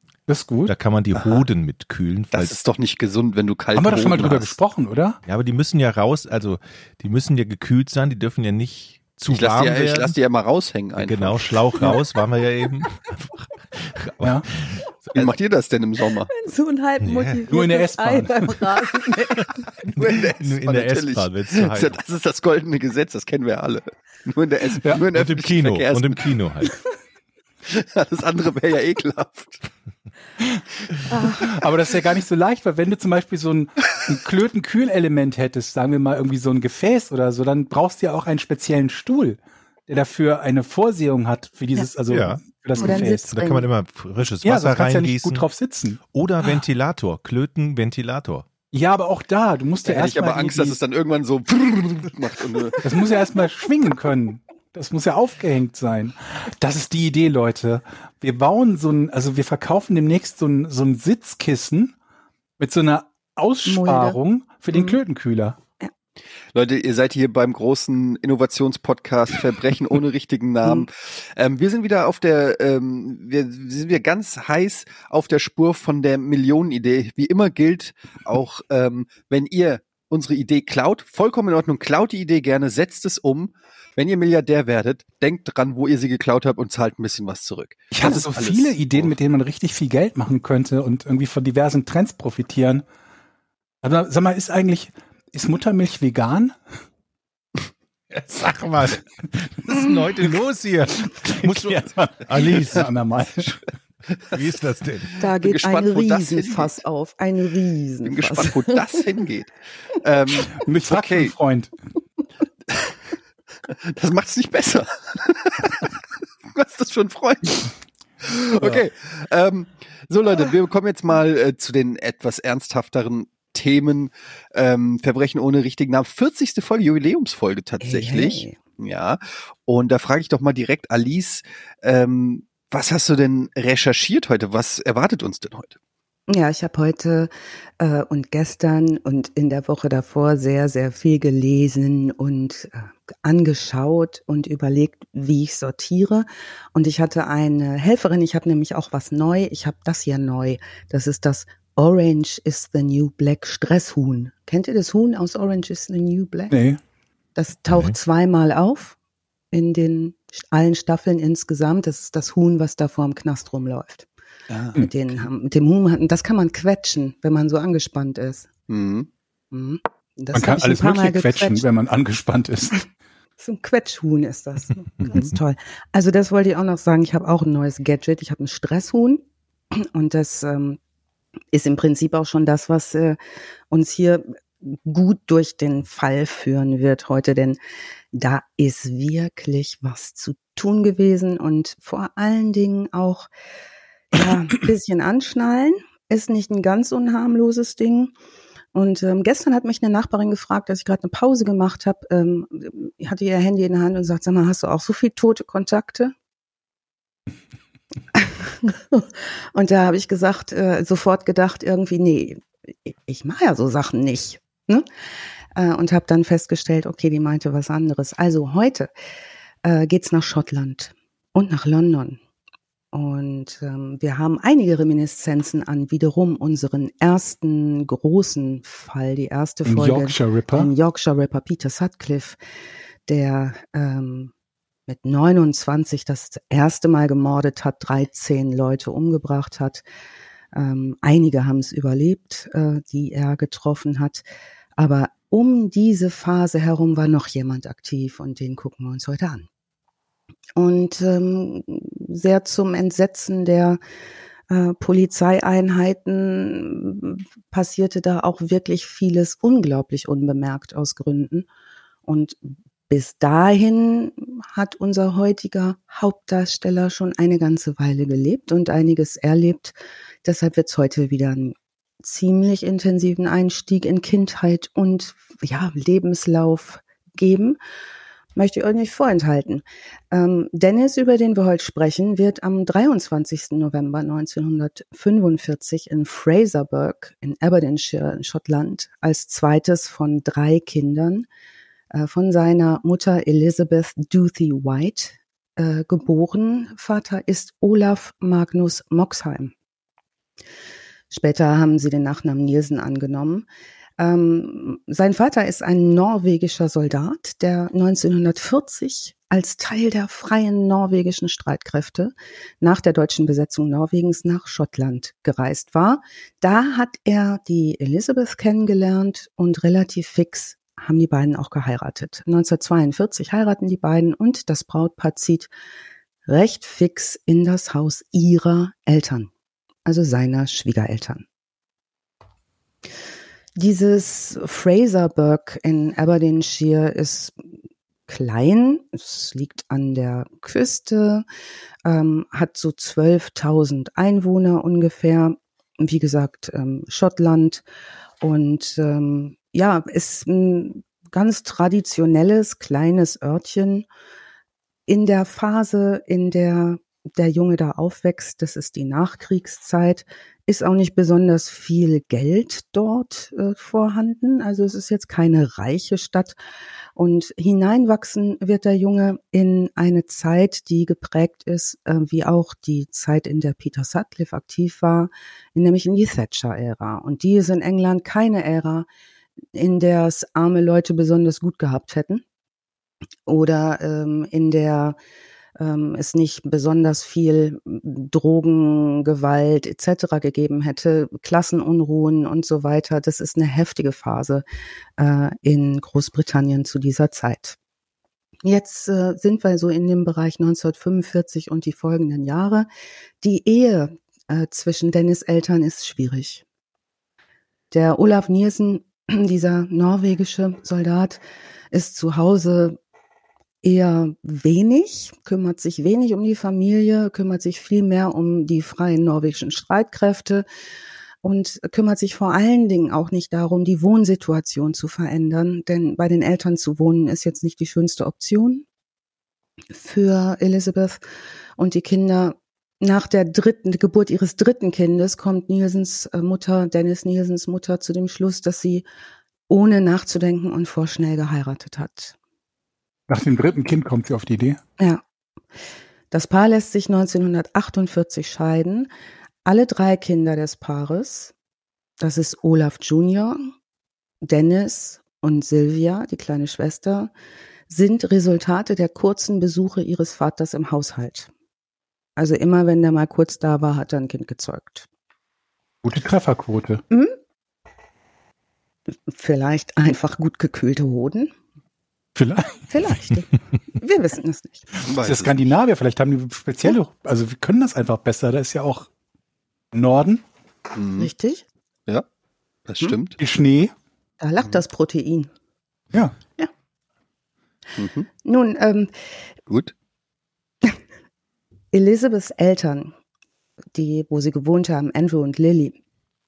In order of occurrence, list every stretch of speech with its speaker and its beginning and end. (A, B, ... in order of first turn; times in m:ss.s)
0:00.3-0:00.7 A
0:00.7-0:02.6 B
0:01.2-0:01.4 C
0:02.3-0:04.6 C
0:03.8-0:05.2 A
0:05.3-0:10.2 B
0:09.3-0:12.0 C
0:11.0-0:15.4 B
0:14.2-0:14.5 A
0:15.1-0:16.3 C
0:16.3-0:19.9 D
0:17.0-0:17.5 B
0:17.5-0:18.7 A
0:19.8-0:26.4 C
0:19.9-0:22.0 B
0:25.1-0:26.8 B
0:27.7-0:29.7 C
0:31.1-0:31.5 D
0:31.2-0:43.2 A
0:42.1-0:45.4 B
0:42.8-0:43.7 D
0:44.4-0:46.0 A
0:46.1-0:48.5 B
0:48.7-0:50.8 A
0:49.8-0:52.8 C
0:52.8-1:02.0 A
1:02.6-1:05.6 A
1:03.6-1:04.2 D
1:04.7-1:05.0 D
1:06.5-1:29.1 C
1:27.9-1:32.8 A
1:33.8-1:36.6 A
1:38.1-1:42.9 B
1:41.1-1:43.6 A
1:44.1-1:44.4 C
1:44.3-1:45.2 B
1:45.2-1:49.0 D
1:45.3-1:46.8 C
1:48.0-1:51.4 C
1:50.6-1:51.7 A
1:53.7-2:15.8 C
2:07.8-2:08.6 D
2:16.3-2:36.6 D
2:36.5-2:36.8 A
2:37.4-2:39.0 D
2:39.5-2:44.1 D
2:44.7-2:48.5 D
2:48.7-2:49.1 C
2:49.5-2:51.7 D
2:50.3-2:52.8 A
2:53.4-3:00.8 D
3:01.5-3:03.2 D
3:03.7-3:07.6 D
3:08.1-3:13.3 D
3:14.1-3:18.1 D
3:18.7-3:26.1 D
3:28.1-3:34.9 D
3:35.6-3:38.9 D
3:39.6-3:42.2 D
3:42.9-3:52.4 D
3:49.6-3:50.7 A
3:53.1-3:54.3 D
3:54.9-3:59.8 D
4:00.5-4:04.2 D
4:04.8-4:09.5 D
4:10.6-4:13.8 D
4:14.5-4:21.5 D
4:22.0-4:37.6 D
4:38.4-4:51.3 D
4:51.9-4:59.5 D
5:01.1-5:03.5 D
5:04.0-5:25.5 D
5:26.3-5:29.3 D
5:29.8-5:31.2 D
5:33.6-5:41.2 D
5:41.8-5:47.6 D
5:48.2-5:53.9 D
5:54.9-6:06.4 D
6:07.0-6:18.9 D
6:19.5-6:22.2 D
6:23.3-6:25.0 D
6:25.6-6:34.4 D
6:35.0-6:37.6 D
6:38.4-6:42.7 D
6:43.2-6:46.4 D
6:47.7-6:52.8 D
6:53.6-7:00.4 D
7:01.2-7:08.7 D
7:09.7-7:11.0 D
7:11.6-7:18.8 D
7:19.5-7:22.2 D
7:23.1-7:24.6 A
7:26.1-7:28.9 D
7:29.4-7:31.3 D
7:32.0-7:33.5 D
7:34.2-7:37.1 D
7:37.7-7:41.3 D
7:42.2-7:44.9 D
7:45.8-7:46.8 A
7:46.9-7:47.2 D
7:49.1-7:51.3 D
7:52.2-7:52.9 A
7:52.7-7:54.8 D
7:54.9-7:55.5 C
7:55.0-7:58.9 A
7:59.7-8:00.2 A
8:00.7-8:01.1 C
8:01.0-8:01.5 D
8:02.7-8:03.2 C
8:03.2-8:03.7 A
8:04.2-8:05.3 D
8:07.8-8:08.1 C
8:08.2-8:08.9 D
8:09.5-8:09.7 C
8:11.7-8:12.9 D
8:13.8-8:15.8 D